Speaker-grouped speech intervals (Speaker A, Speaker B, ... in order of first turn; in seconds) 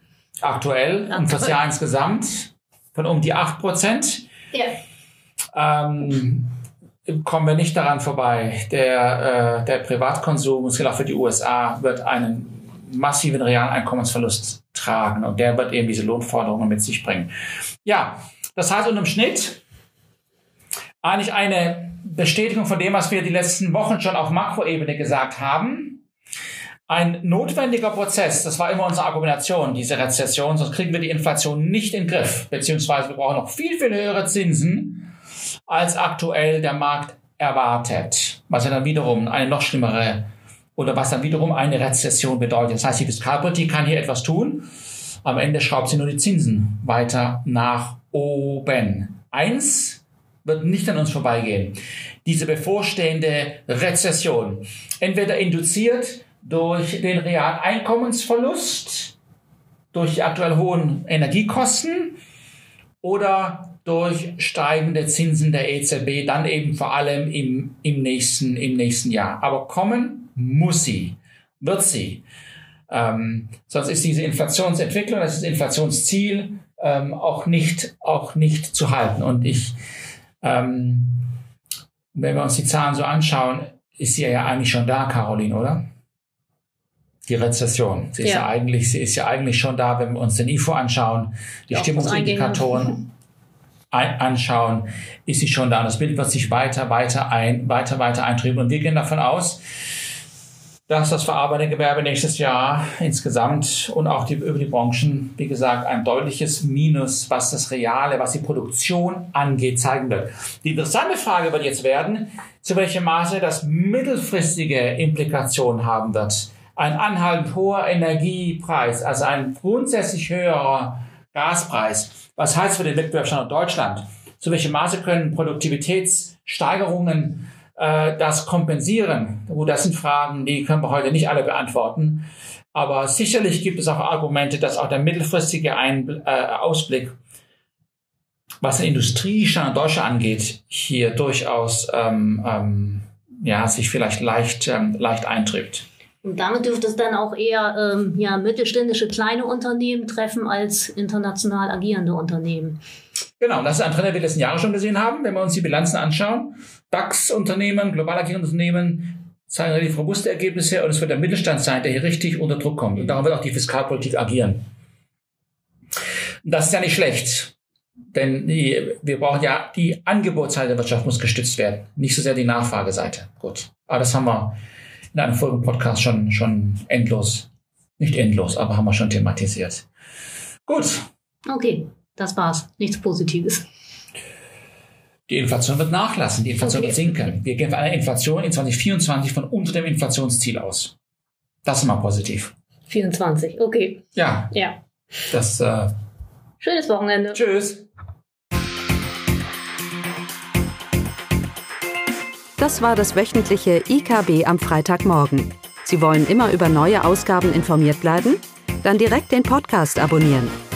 Speaker A: 0.4-4.3, 5.5-6.5, 7.1-17.3, 17.8-19.6, 21.0-26.0, 26.9-35.1, 35.7-44.7, 45.2-59.1, 59.9-62.2, 63.0-72.2, 72.9-79.8, 80.4-81.3, 82.1-85.8, 87.3-93.0, 93.9-99.6, 100.9-137.1, 138.6-145.8, 153.4-164.6, 166.4-167.5, 168.1-174.6, 175.1-179.9, 180.7-181.1, 185.3-190.9, 191.6-192.5, 194.1-194.5, 195.3-195.9, 197.3-197.8
Speaker B: 1.1-1.6, 88.2-88.5, 91.7-93.0, 146.2-152.8, 181.5-183.7, 186.6-187.1, 192.9-194.8, 196.6-197.4
Speaker C: 202.6-210.5